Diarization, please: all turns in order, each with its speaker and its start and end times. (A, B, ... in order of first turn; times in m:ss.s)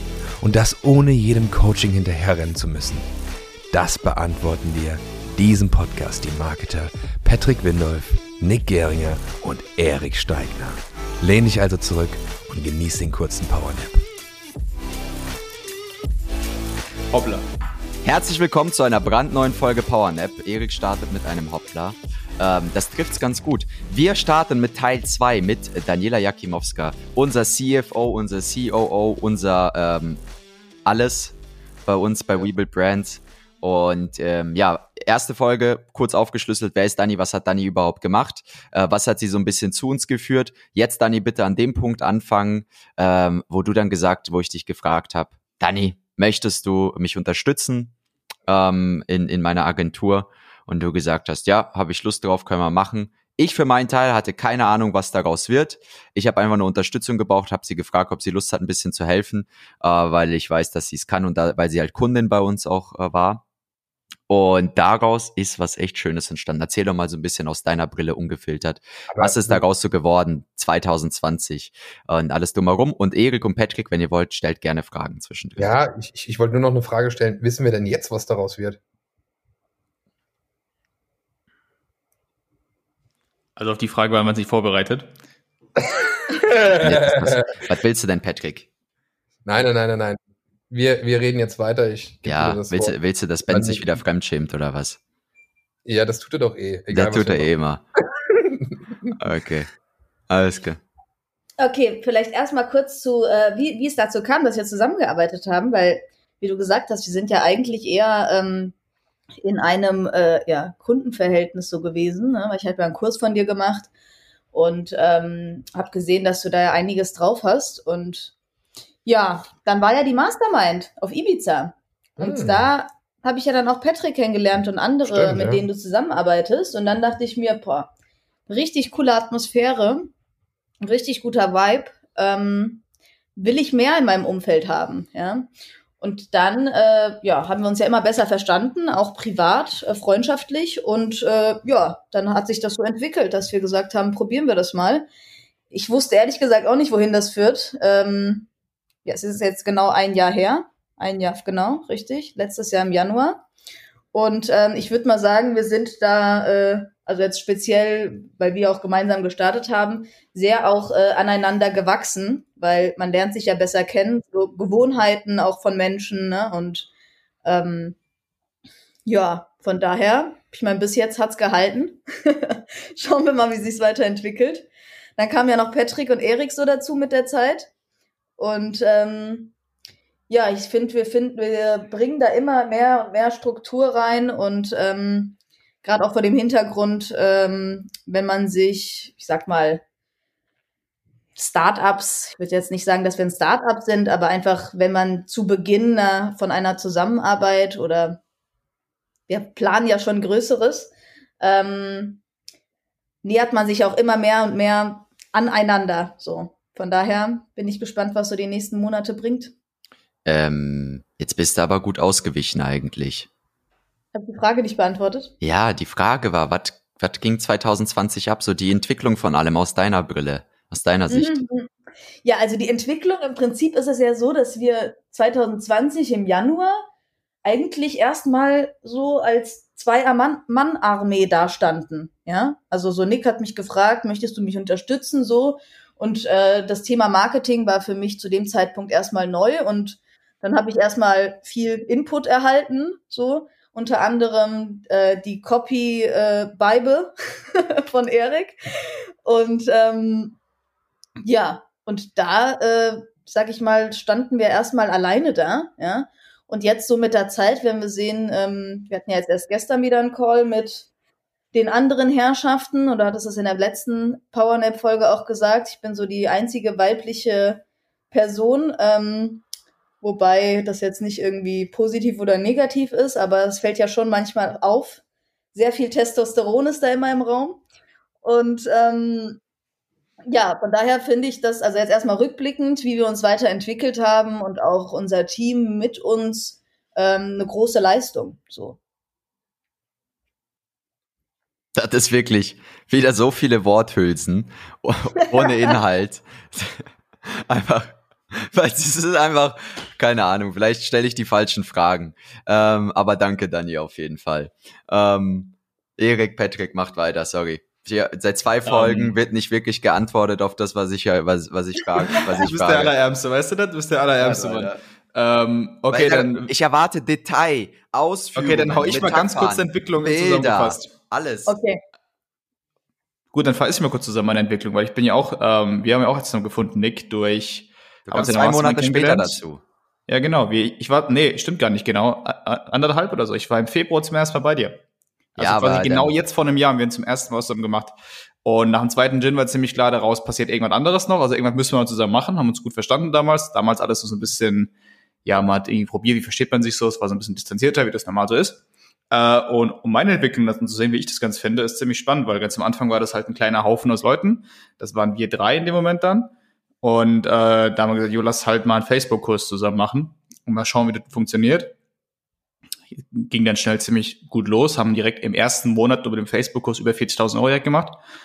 0:00.4-0:03.0 A
0:03.7-0:14.0 A
0:17.1-0:17.4 B
0:18.0-0:30.2 C
0:30.8-0:47.9 C
0:48.5-1:03.4 C
1:04.3-1:15.7 C
1:09.1-1:09.6 D
1:15.6-1:18.8 D
1:23.6-1:25.1 B
1:26.3-1:27.5 D
1:26.8-1:28.7 C
1:29.4-1:30.2 D
1:30.7-1:33.0 D
1:32.2-1:35.0 C
1:33.5-1:34.0 D
1:35.8-1:37.5 D
1:36.9-1:37.8 C
1:38.3-1:39.1 D
1:39.2-1:39.7 C
1:40.3-1:40.8 C
1:41.6-1:48.7 E
1:49.4-1:53.9 E
1:54.5-1:58.3 E
1:59.0-2:07.9 E
2:02.2-2:02.7 D
2:05.0-2:05.6 D
2:08.5-2:10.1 E
2:10.8-2:12.8 E
2:13.4-2:25.1 E
2:25.7-2:28.5 E
2:29.0-2:33.4 E
2:34.1-2:46.9 E
2:47.4-2:48.0 E
2:49.0-2:57.7 E
2:58.4-2:59.5 E
3:00.3-3:09.8 E
3:11.4-3:18.2 E
3:19.3-3:22.2 E
3:23.2-3:29.5 E
3:30.2-3:33.3 C
3:34.1-3:35.3 E
3:35.4-3:41.4 C
3:41.1-3:41.7 E
3:42.2-3:46.8 E
3:47.4-4:10.4 E
4:11.2-4:20.9 E
4:21.5-4:29.4 E
4:30.0-4:35.0 E
4:35.5-4:37.6 E
4:38.2-4:39.4 E
4:40.3-4:48.8 E
4:51.8-5:13.0 C
4:55.4-4:55.6 E
5:08.7-5:09.1 B
5:12.0-5:16.5 B
5:14.2-5:14.8 C
5:15.9-5:21.6 C
5:18.3-5:20.9 B
5:21.4-5:21.8 E
5:23.3-5:29.4 B
5:28.1-5:29.6 C
5:30.1-5:34.8 B
5:35.4-5:44.7 B
5:35.4-5:36.1 C
5:45.2-6:01.7 B
6:03.0-6:08.0 B